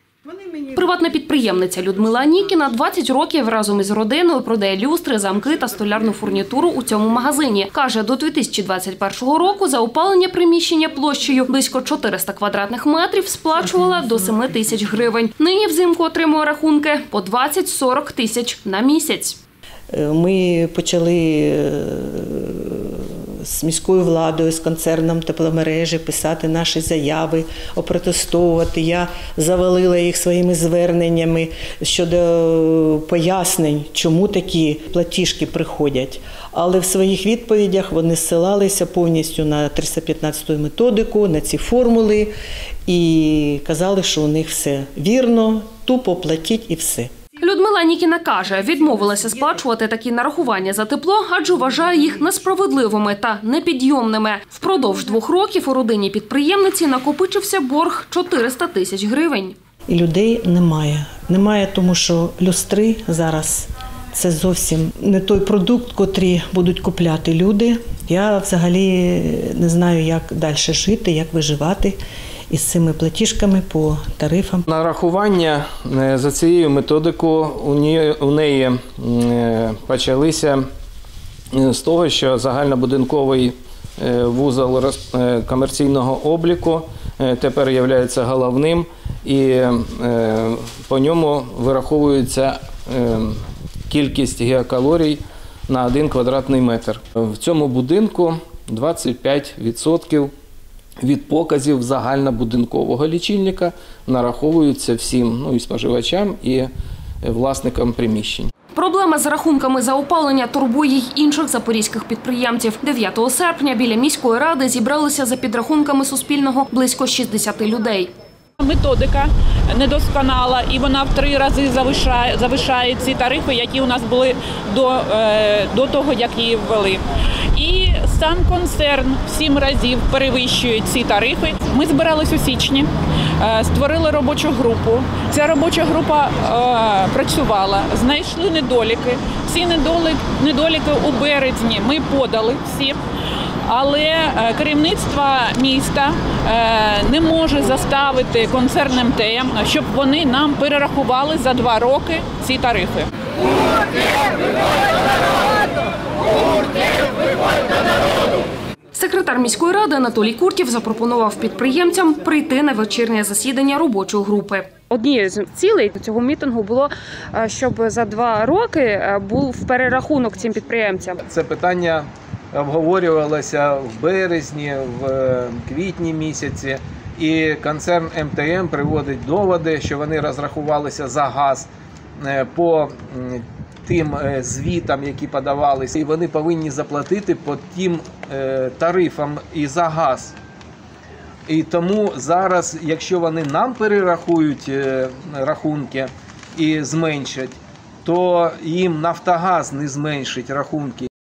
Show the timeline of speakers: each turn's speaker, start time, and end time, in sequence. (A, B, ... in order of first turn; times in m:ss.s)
0:00.2-0:00.7 A
0:00.7-0:19.4 B
0:19.9-0:42.3 A
0:42.9-0:47.1 A
0:47.4-0:59.5 B
0:59.9-1:12.0 A
1:12.5-1:14.6 A
1:14.7-1:20.6 C
1:21.5-1:40.3 C
1:41.0-1:46.7 C
1:47.2-1:48.5 C
1:48.7-1:58.1 B
1:58.6-2:07.0 D
2:07.5-2:23.0 D
2:23.7-2:33.1 D
2:38.9-2:51.2 B
2:51.3-3:10.3 C
3:11.5-3:21.1 C